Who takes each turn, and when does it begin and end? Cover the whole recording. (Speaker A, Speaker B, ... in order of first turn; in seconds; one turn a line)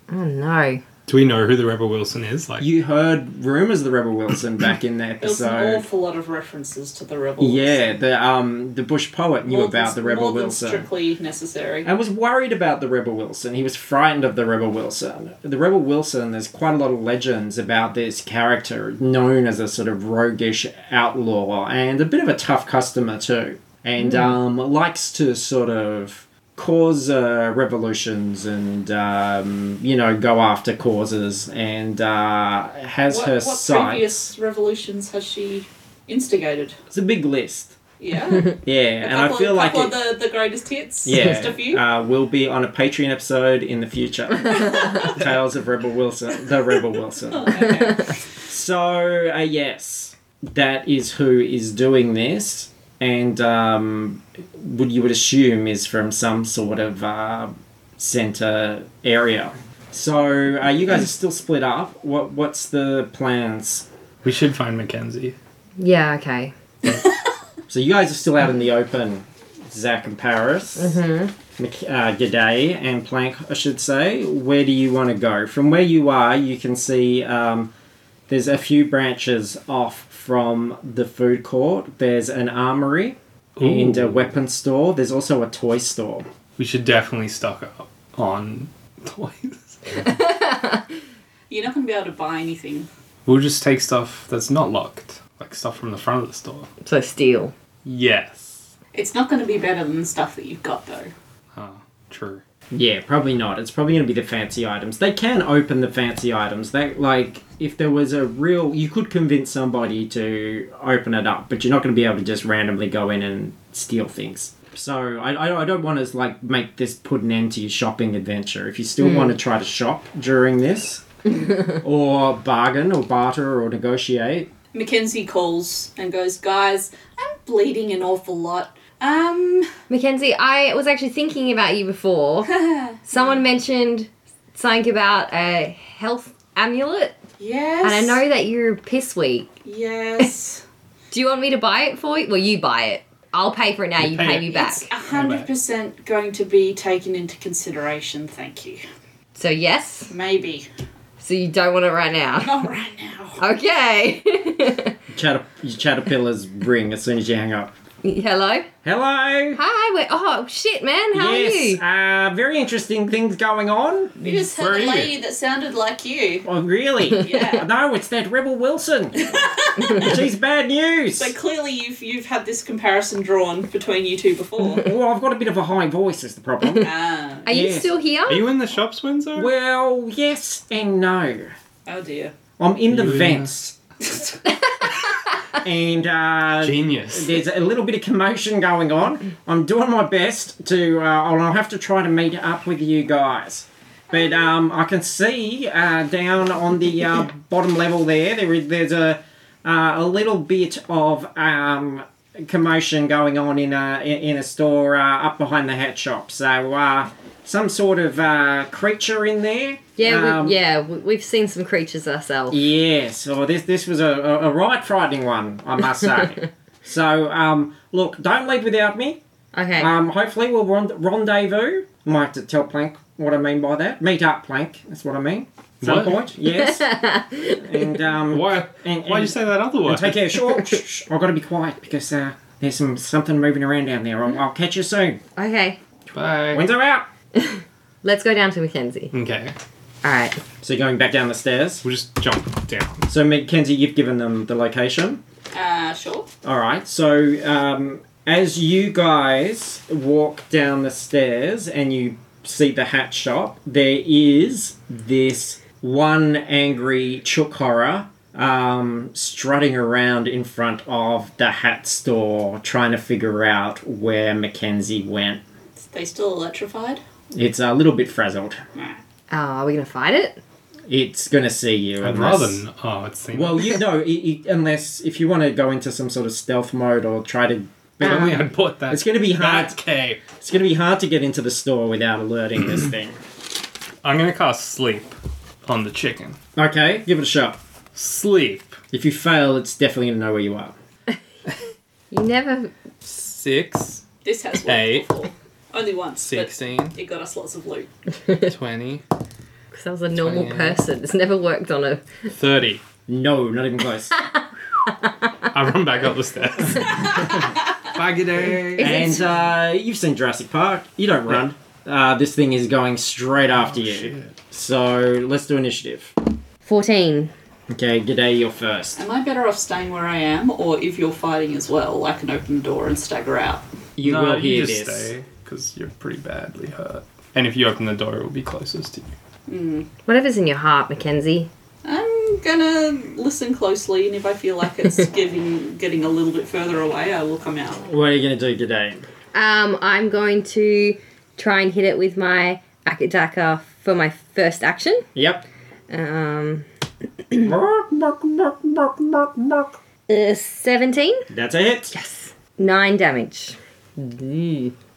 Speaker A: 0.1-0.8
Speaker B: 1.1-2.7
Speaker C: 2.6-5.9
Speaker D: 5.2-7.8
Speaker C: 7.4-10.9
Speaker D: 9.4-11.9
Speaker C: 11.8-34.1
Speaker D: 33.1-36.8
Speaker C: 36.9-37.7
Speaker D: 38.0-41.8
Speaker C: 38.5-40.0
Speaker C: 41.0-47.6
Speaker D: 44.5-45.2
Speaker D: 47.3-48.2
Speaker C: 48.5-63.9
Speaker B: 64.2-65.4
Speaker A: 65.8-66.5
Speaker C: 67.7-70.9
Speaker A: 70.8-71.3
Speaker C: 71.6-77.7
Speaker C: 78.3-86.3
Speaker B: 83.5-84.3
Speaker B: 86.6-90.1
Speaker A: 90.0-90.9
Speaker D: 91.5-92.9
Speaker B: 93.3-96.7
Speaker A: 96.8-97.5
Speaker B: 97.8-98.7
Speaker D: 98.9-101.1
Speaker B: 101.5-102.4
Speaker C: 102.7-124.5
Speaker A: 119.0-119.3
Speaker D: 124.7-129.7
Speaker A: 129.9-137.2
Speaker D: 132.4-133.4
Speaker D: 137.4-138.2
Speaker A: 137.8-139.5
Speaker D: 139.6-140.6
Speaker A: 141.1-144.9
Speaker B: 144.0-144.4
Speaker D: 144.3-148.8
Speaker B: 145.1-145.5
Speaker A: 149.4-150.1
Speaker D: 150.1-150.7
Speaker A: 151.2-152.6
Speaker D: 152.4-153.4
Speaker A: 153.4-155.0
Speaker C: 155.1-157.7
Speaker A: 158.0-158.7
Speaker C: 158.8-159.6
Speaker A: 159.5-161.8
Speaker C: 161.1-164.1
Speaker D: 164.2-166.4
Speaker B: 164.6-165.1
Speaker C: 166.4-171.3
Speaker D: 167.2-167.7
Speaker D: 169.2-170.2
Speaker D: 171.2-174.9
Speaker C: 174.7-176.9
Speaker D: 176.8-177.5
Speaker A: 177.4-178.5
Speaker C: 177.5-177.9
Speaker B: 178.3-179.5
Speaker C: 179.4-181.5
Speaker D: 181.9-182.3
Speaker C: 182.6-183.8
Speaker B: 182.9-183.5
Speaker D: 184.1-184.4
Speaker C: 185.6-210.6
Speaker B: 186.6-187.3
Speaker D: 194.1-194.4
Speaker A: 210.0-212.6
Speaker C: 212.5-219.2
Speaker A: 219.5-219.9
Speaker C: 219.8-235.2
Speaker B: 225.8-226.2
Speaker A: 226.4-227.8
Speaker B: 228.3-230.2
Speaker A: 235.4-235.8
Speaker B: 236.1-236.7
Speaker C: 236.5-237.1
Speaker A: 237.3-239.1
Speaker B: 239.1-239.6
Speaker A: 240.0-240.4
Speaker C: 240.6-241.8
Speaker B: 241.8-243.1
Speaker C: 243.1-245.2
Speaker D: 245.5-246.3
Speaker C: 246.4-265.4
Speaker D: 265.9-267.0
Speaker C: 267.3-268.6
Speaker A: 269.3-270.4
Speaker C: 270.9-272.6
Speaker B: 272.0-273.7
Speaker C: 273.3-279.8
Speaker B: 278.0-280.2
Speaker A: 278.0-278.4
Speaker C: 280.4-283.2
Speaker B: 284.0-286.4
Speaker C: 286.6-287.6
Speaker B: 287.9-288.8
Speaker C: 288.9-290.7
Speaker A: 292.1-292.7
Speaker B: 293.0-294.0
Speaker D: 294.2-297.9
Speaker B: 294.6-295.1
Speaker B: 296.2-297.0
Speaker B: 298.3-299.0
Speaker A: 299.7-302.0
Speaker B: 300.1-300.8
Speaker B: 302.3-302.8
Speaker C: 303.1-304.2
Speaker A: 304.2-304.4
Speaker B: 305.5-309.0
Speaker A: 308.8-309.2
Speaker C: 308.8-316.1
Speaker B: 313.7-314.3
Speaker A: 316.6-317.3
Speaker C: 317.7-319.0
Speaker D: 319.0-323.6
Speaker C: 324.0-325.1
Speaker B: 324.0-329.1
Speaker D: 329.5-329.9
Speaker A: 330.1-331.5
Speaker D: 331.8-337.9
Speaker C: 337.8-339.1
Speaker A: 339.3-345.1
Speaker C: 345.1-345.4
Speaker A: 345.9-346.7
Speaker C: 347.4-349.8
Speaker A: 350.1-351.3
Speaker C: 351.3-351.9
Speaker A: 351.9-354.7